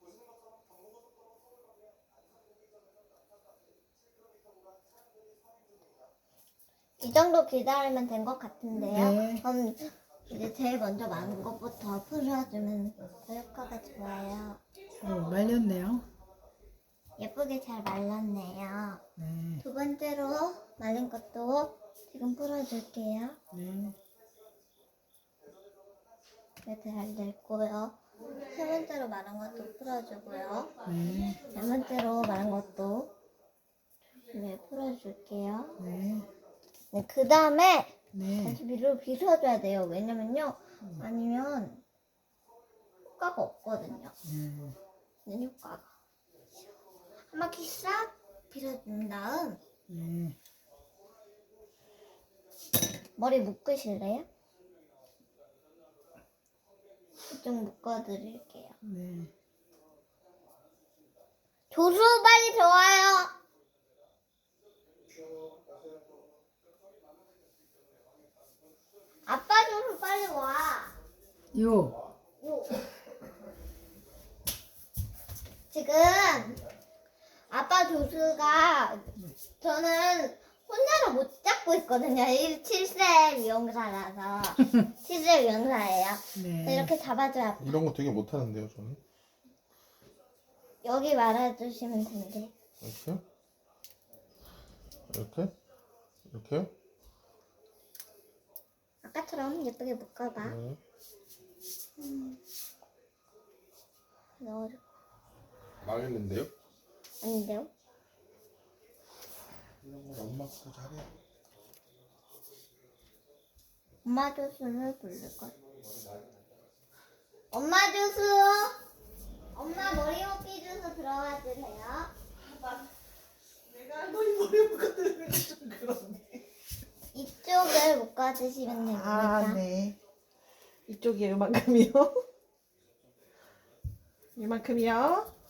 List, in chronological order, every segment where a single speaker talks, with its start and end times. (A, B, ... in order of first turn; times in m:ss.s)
0:07.0-0:14.6 A
0:08.8-0:09.4 B
0:15.0-0:16.0 B
0:17.2-0:19.0 A
0:19.2-0:19.6 B
0:19.6-0:23.4 A
0:23.5-0:24.0 B
0:26.6-0:30.7 A
0:30.8-0:31.4 B
0:31.4-0:33.1 A
0:34.3-0:35.8 A
0:35.8-0:36.3 B
0:36.9-0:41.8 A
0:38.1-0:38.6 B
0:43.1-0:44.1 A
0:44.2-0:44.8 B
0:45.3-0:45.9 A
0:47.3-0:49.6 A
0:49.9-0:50.4 B
0:53.2-0:54.3 A
0:57.3-0:58.8 A
0:58.8-0:59.3 B
1:01.7-1:03.3 A
1:09.3-1:10.9 A
1:11.5-1:12.0 B
1:12.4-1:12.8 A
1:15.7-1:16.6 A
1:17.5-1:27.8 A
1:26.4-1:26.9 B
1:27.6-1:29.0 C
1:30.8-1:32.5 A
1:32.8-1:33.2 C
1:35.1-1:35.5 C
1:36.3-1:36.7 C
1:39.0-1:40.6 A
1:42.0-1:42.4 A
1:44.4-1:44.8 A
1:45.8-1:46.5 C
1:47.2-1:47.7 A
1:49.8-1:51.1 C
1:54.0-1:55.5 A
1:57.5-1:58.8 A
1:59.5-2:02.1 A
2:03.7-2:06.4 D
2:07.1-2:09.6 A
2:08.8-2:10.0 D
2:10.9-2:12.2 D
2:14.4-2:15.3 D